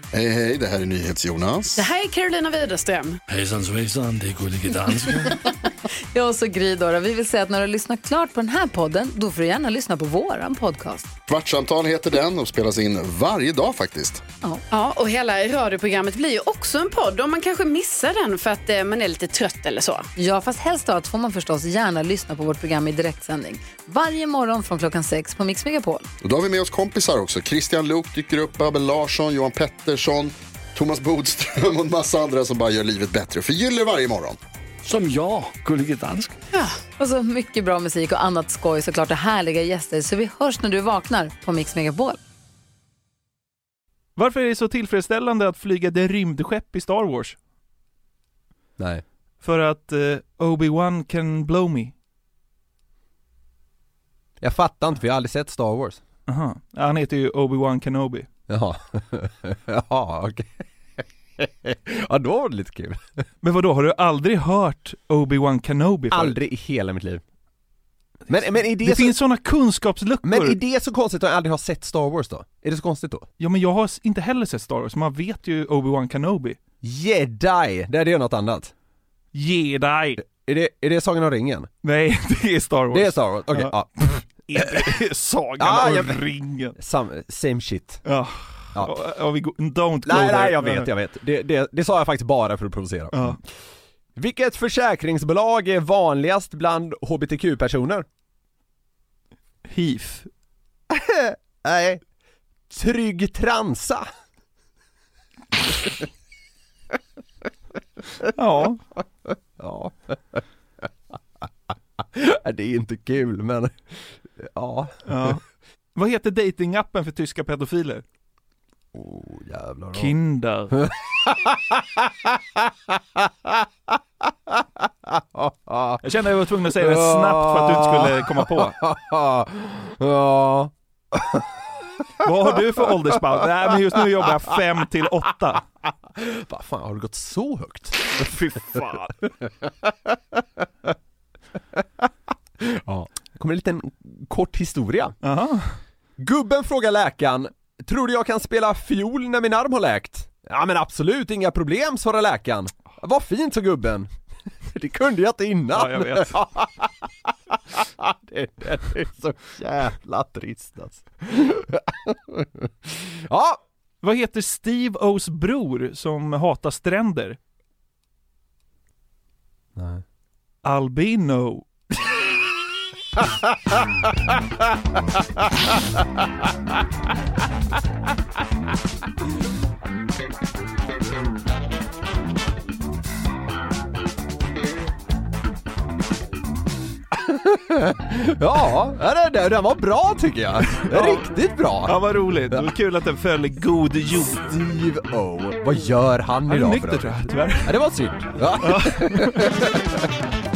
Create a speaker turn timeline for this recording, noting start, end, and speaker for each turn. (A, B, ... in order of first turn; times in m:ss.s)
0:00.1-0:01.9 A
0:01.8-0:03.2 B
0:03.3-0:05.4 C
0:06.1-0:11.1 D
0:11.3-0:14.2 A
0:14.7-0:20.1 B
0:20.2-0:26.1 D
0:26.2-0:34.4 A
0:34.8-0:36.4 C
0:37.0-0:42.2 D
0:44.2-0:47.4 E
0:48.8-0:49.0 F
0:49.4-0:51.9 E
0:54.4-0:56.0 F
0:56.3-0:58.3 E
0:58.5-1:00.6 F
1:01.4-1:03.2 F
1:03.4-1:06.4 E
1:06.1-1:07.2 F
1:08.3-1:09.2 F
1:08.8-1:10.6 E
1:10.2-1:13.3 F
1:13.4-1:16.6 E
1:16.8-1:18.7 F
1:19.3-1:20.2 E
1:20.3-1:21.7 F
1:21.8-1:26.7 E
1:22.9-1:24.1 F
1:25.6-1:26.2 F
1:26.8-1:28.0 F
1:28.1-1:30.9 E
1:30.1-1:33.4 F
1:33.1-1:33.4 E
1:34.2-1:38.1 F
1:39.7-1:40.3 E
1:40.9-1:42.0 F
1:42.7-1:44.1 F
1:48.3-1:48.8 E
1:49.6-1:50.8 F
1:52.0-1:55.4 F
1:55.1-1:55.4 E
1:56.0-1:58.0 E
1:58.9-2:00.1 F
1:59.9-2:00.8 E
2:00.7-2:03.9 F
2:04.5-2:06.0 F
2:06.0-2:08.8 E
2:06.7-2:11.5 F
2:12.2-2:15.6 E
2:16.2-2:20.9 F
2:18.2-2:19.1 E
2:21.8-2:22.1 F
2:22.6-2:25.2 F
2:25.2-2:25.8 E
2:26.2-2:34.1 F
2:34.7-2:43.6 F
2:35.7-2:36.3 E
2:44.0-2:47.4 E
2:49.8-2:50.0 F
2:50.6-2:51.7 E
3:07.1-3:12.0 F
3:10.8-3:11.2 E
3:11.8-3:14.6 E
3:14.4-3:20.0 F
3:16.5-3:17.8 E
3:18.6-3:19.6 E